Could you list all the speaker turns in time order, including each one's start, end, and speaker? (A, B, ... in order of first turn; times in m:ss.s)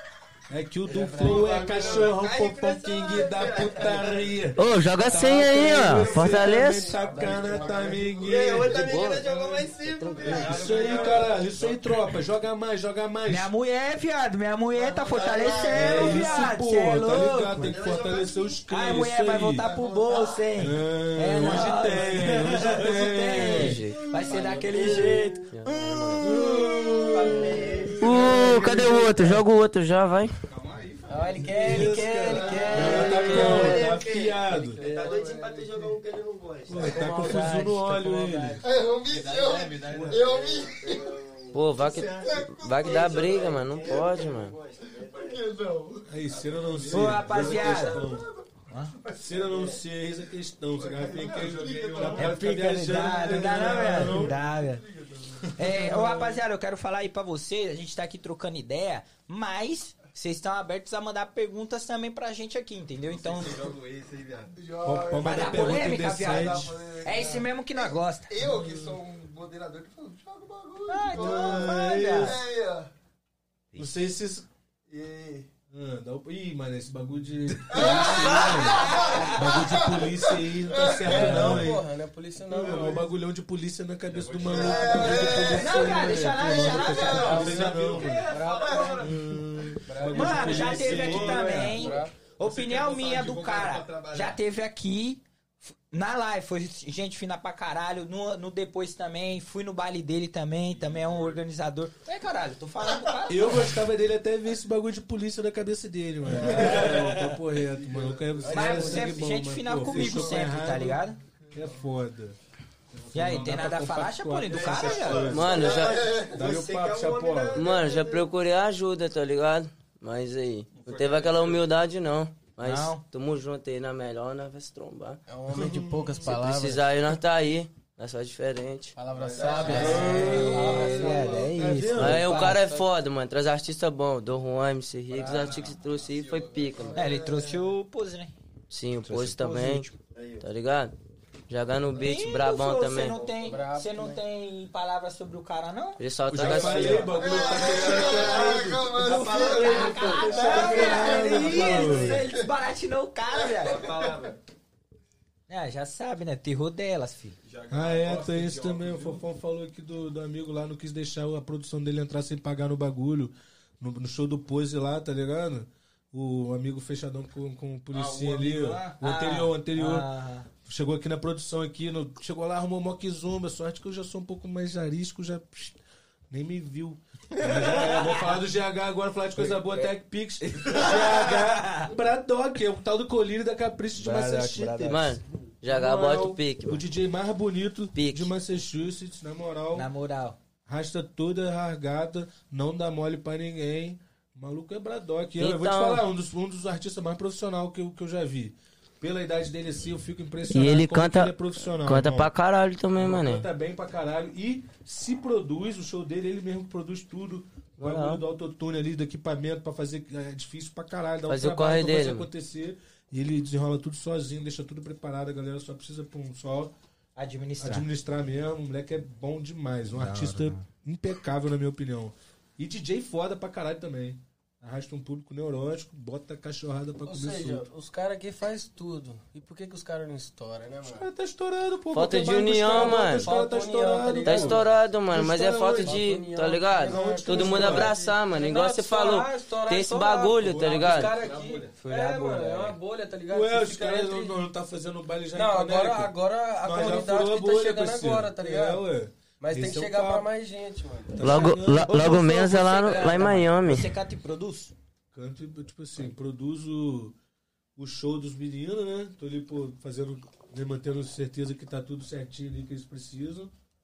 0:00.5-0:09.0 A
0:00.9-0:02.0 B
0:01.2-0:04.2 C
0:01.3-0:04.3 D
0:04.6-0:06.9 E
0:05.9-0:09.4 C
0:06.0-0:11.4 D
0:07.1-0:08.0 B
0:08.7-0:10.5 E
0:10.1-0:11.4 C
0:10.2-0:13.5 A
0:10.3-0:11.8 F
0:13.3-0:17.8 G
0:14.8-0:16.5 C
0:15.2-0:16.3 D
0:15.7-0:19.7 A
0:17.6-0:18.4 D
0:17.7-0:18.6 C
0:18.7-0:26.3 G
0:19.6-0:20.6 C
0:19.7-0:20.2 D
0:20.6-0:24.5 A
0:23.4-0:24.0 E
0:24.3-0:25.4 D
0:24.8-0:26.2 E
0:26.2-0:29.4 A
0:26.6-0:28.1 D
0:27.1-0:27.9 C
0:28.0-0:30.3 E
0:30.5-0:31.9 F
0:31.1-0:33.8 G
0:31.3-0:31.6 B
0:31.6-0:34.8 A
0:32.4-0:32.8 F
0:32.6-0:37.5 D
0:32.7-0:36.0 C
0:36.7-0:38.6 A
0:36.8-0:38.6 G
0:38.6-0:41.2 C
0:39.1-0:40.7 F
0:39.9-0:45.4 D
0:41.5-0:44.6 E
0:41.8-0:44.2 C
0:44.9-0:46.2 C
0:46.1-0:48.3 A
0:46.3-0:47.8 F
0:46.9-0:48.0 G
0:47.5-0:48.3 C
0:48.7-0:49.0 G
0:49.0-0:49.8 C
0:49.2-0:54.4 A
0:49.5-0:49.7 D
0:50.8-0:55.9 C
0:51.1-0:52.4 F
0:52.1-0:54.8 G
0:55.4-0:56.4 A
0:55.6-1:03.7 G
1:03.1-1:04.0 F
1:03.7-1:04.5 D
1:04.5-1:12.9 C
1:04.8-1:06.8 A
1:05.2-1:08.3 G
1:08.4-1:09.0 A
1:10.9-1:12.4 G
1:11.1-1:12.4 A
1:13.7-1:14.0 G
1:13.8-1:14.5 A
1:14.9-1:15.5 C
1:15.7-1:21.8 A
1:17.7-1:21.7 C
1:17.7-1:19.8 G
1:21.1-1:23.1 B
1:22.5-1:28.4 A
1:22.5-1:23.0 C
1:24.0-1:25.6 F
1:24.5-1:29.1 C
1:25.6-1:27.7 G
1:26.0-1:29.2 B
1:27.1-1:29.2 F
1:29.0-1:31.9 A
1:29.9-1:32.2 B
1:29.9-1:34.3 F
1:30.1-1:43.8 G
1:40.7-1:41.4 F
1:43.3-1:52.4 A
1:46.3-1:47.2 C
1:46.4-1:47.4 G
1:46.5-1:46.9 B
1:47.7-1:48.8 C
1:48.4-1:49.3 B
1:48.5-1:51.2 G
1:49.9-1:50.6 C
1:51.5-1:51.9 C
1:52.9-1:57.7 A
1:53.1-1:55.4 G
1:54.5-1:58.2 C
1:55.3-1:56.2 E
1:55.7-1:57.5 D
1:57.5-2:05.2 E
2:00.7-2:01.6 F
2:02.6-2:03.0 G
2:05.3-2:07.0 B
2:05.5-2:06.4 A
2:06.2-2:09.0 E
2:09.0-2:12.9 B
2:09.4-2:09.8 F
2:09.4-2:10.3 C
2:09.4-2:12.6 A
2:09.6-2:12.6 G
2:11.9-2:17.0 E
2:15.1-2:17.0 F
2:17.0-2:17.7 C
2:17.0-2:18.4 G
2:18.7-2:19.9 E
2:19.1-2:19.9 G
2:20.2-2:20.4 D
2:20.4-2:21.0 E
2:21.5-2:23.2 E
2:21.9-2:27.0 G
2:23.3-2:24.2 B
2:26.0-2:27.2 E
2:26.3-2:29.1 A
2:27.0-2:28.1 F
2:27.1-2:32.5 C
2:28.1-2:28.4 G
2:28.9-2:33.8 G
2:29.2-2:30.7 F
2:29.8-2:32.3 A
2:33.4-2:34.4 C
2:33.6-2:34.4 F
2:35.5-2:37.4 G
2:37.4-2:39.3 F
2:37.7-2:50.1 A
2:47.9-2:49.0 F
2:49.0-2:50.5 G
2:50.6-2:55.8 A
2:56.3-3:05.1 A
2:57.3-2:58.4 G
2:59.4-3:01.9 G
3:04.0-3:05.2 G
3:04.8-3:06.8 E
3:05.6-3:09.9 A
3:07.9-3:08.3 E
3:09.8-3:10.4 G
3:10.7-3:22.3 A
3:15.4-3:16.0 E
3:20.5-3:23.5 E
3:23.0-3:36.7 A
3:27.8-3:28.2 E
3:31.3-3:32.3 E
3:37.2-3:37.9 G
3:37.6-3:47.7 A
3:39.9-3:40.6 G
3:47.0-3:51.1 B
3:50.9-3:56.1 A
3:51.9-3:53.3 E
3:52.6-3:54.8 B
3:54.2-4:01.2 E
3:55.8-4:04.4 B
3:56.9-3:58.0 A
4:00.4-4:01.2 A
4:01.0-4:01.7 F
4:01.8-4:02.8 G
4:03.3-4:10.3 A
4:05.3-4:11.4 B
4:11.1-4:12.3 A
4:11.2-4:13.9 E
4:11.8-4:14.7 G
4:12.9-4:13.5 A
4:15.1-4:17.2 A
4:17.8-4:23.5 A